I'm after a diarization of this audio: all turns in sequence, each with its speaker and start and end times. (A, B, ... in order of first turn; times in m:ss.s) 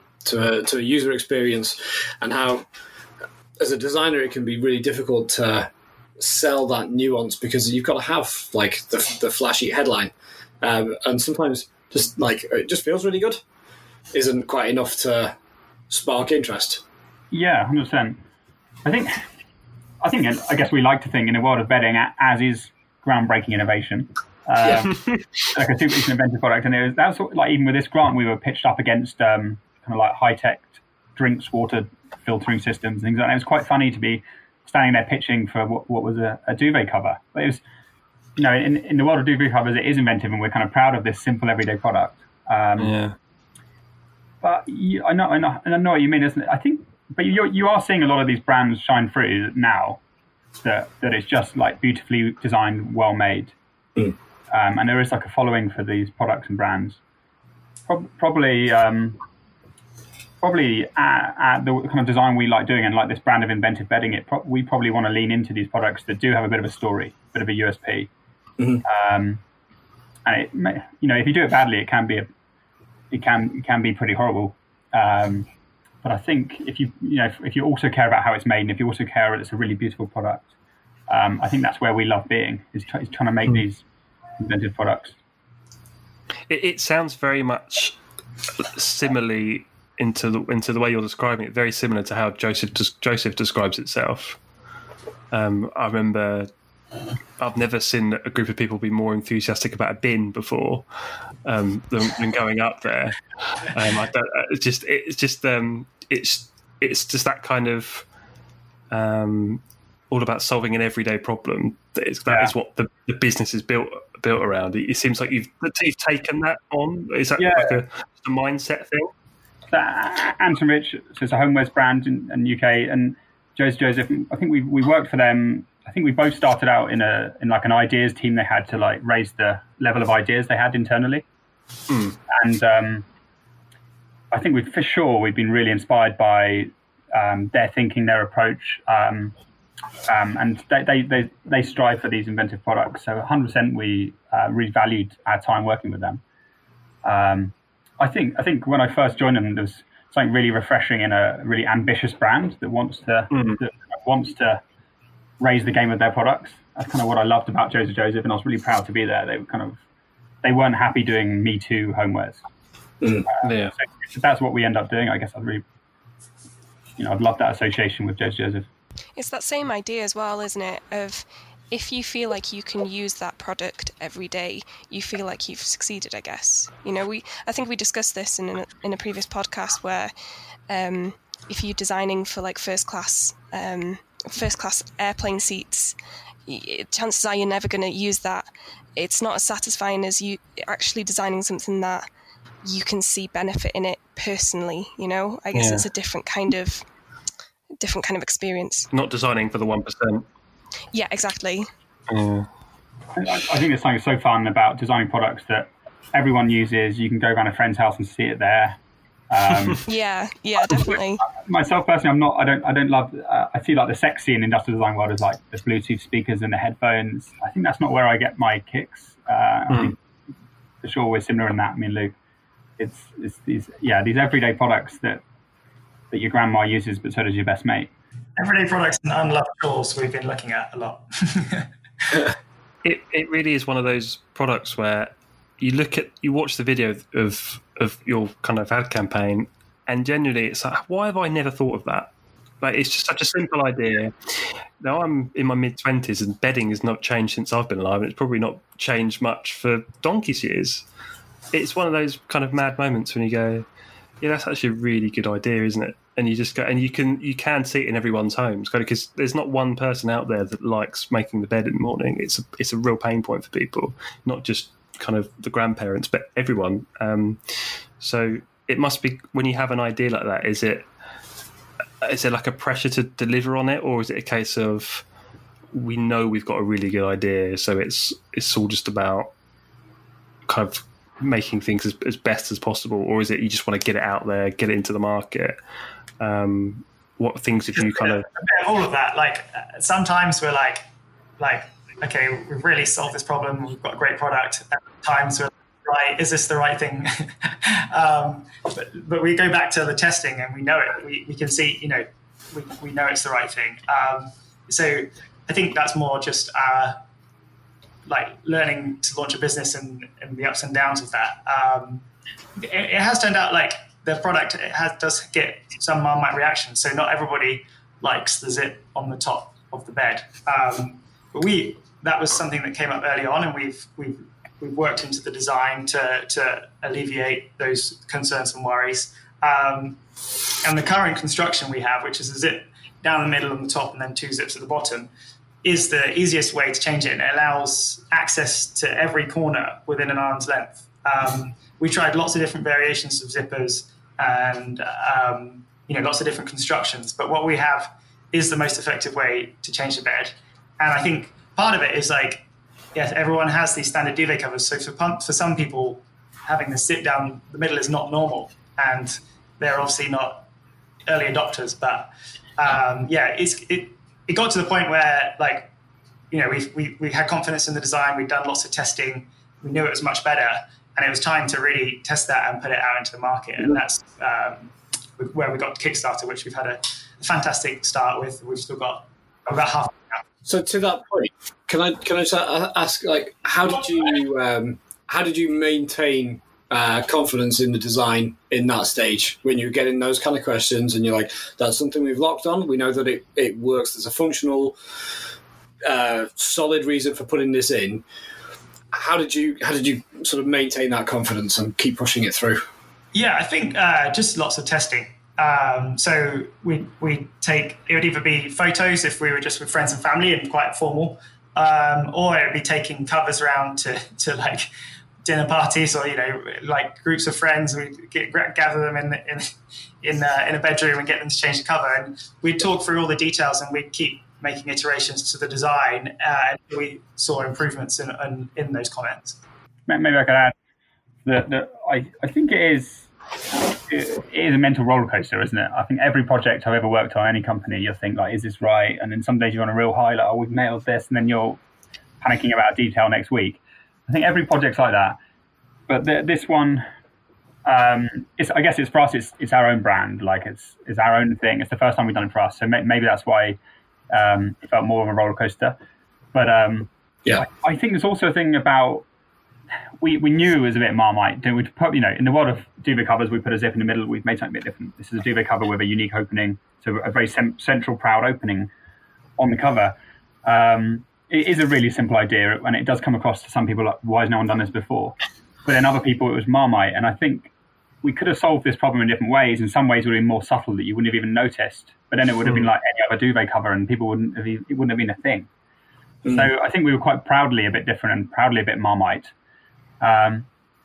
0:00.2-0:02.6 A
0:03.6-0:13.4 A
0:14.1-0:15.3 A
0:15.9-0:16.8 A
0:17.3-0:18.2 B
0:18.8-0:19.2 B
0:20.0-0:37.6 B
0:24.9-0:25.2 C
0:38.4-0:42.9 B
0:42.8-0:43.2 C
0:44.4-0:50.0 B
0:50.6-0:53.5 B
0:54.5-0:57.0 B
0:57.9-0:59.2 B
1:00.4-1:08.1 B
1:08.8-1:09.4 B
1:10.2-1:12.3 B
1:13.1-1:15.5 B
1:16.0-1:20.5 B
1:21.1-1:23.8 B
1:24.4-1:25.1 B
1:26.5-1:28.0 C
1:28.6-1:34.4 C
1:35.3-1:36.5 C
1:37.4-1:40.8 C
1:41.4-1:48.0 C
1:48.9-1:59.1 C
1:57.4-1:57.8 B
1:59.7-2:11.2 B
2:11.9-2:12.2 C
2:12.3-2:13.0 B
2:14.3-2:19.3 B
2:20.1-2:26.2 B
2:27.0-2:34.6 B
2:33.3-2:33.6 C
2:35.4-2:39.8 B
2:40.4-2:42.4 B
2:43.0-2:43.3 A
2:43.3-2:45.6 B
2:43.4-2:43.7 C
2:47.0-2:48.7 B
2:49.2-3:00.1 D
3:00.7-3:05.9 D
3:06.5-3:12.1 D
3:12.6-3:16.8 D
3:15.5-3:15.8 C
3:17.8-3:18.9 D
3:18.9-3:20.3 C
3:20.9-3:21.7 D
3:22.1-3:22.5 C
3:23.2-3:28.8 B
3:29.3-3:29.8 B
3:29.9-3:31.2 D
3:30.6-3:40.0 B
3:40.8-3:42.1 B
3:42.8-3:45.2 B
3:46.1-3:47.9 B
3:48.4-3:52.2 E
3:52.8-4:10.8 C
4:11.5-4:13.6 C
4:14.2-4:30.9 C
4:32.0-4:35.0 C
4:35.7-4:39.3 C
4:40.4-4:45.6 C
4:46.2-4:48.3 C
4:47.7-4:50.8 E
4:51.4-5:07.0 E
5:08.0-5:30.0 E
5:30.6-5:35.1 E
5:35.6-6:00.5 E
6:01.1-6:05.7 E
6:06.3-6:20.2 E
6:20.4-6:34.8 A
6:35.8-6:38.0 A
6:38.9-6:42.6 A
6:43.1-6:54.7 E
6:55.2-7:09.4 E
7:09.9-7:10.5 B
7:11.2-7:21.6 B
7:22.2-7:25.2 B
7:25.9-7:26.8 B
7:27.6-7:33.6 B
7:34.1-7:35.8 B
7:36.3-7:39.0 B
7:40.0-7:48.7 B
7:49.4-7:57.5 B
7:58.0-8:05.5 B
8:06.2-8:09.3 B
8:10.0-8:10.5 B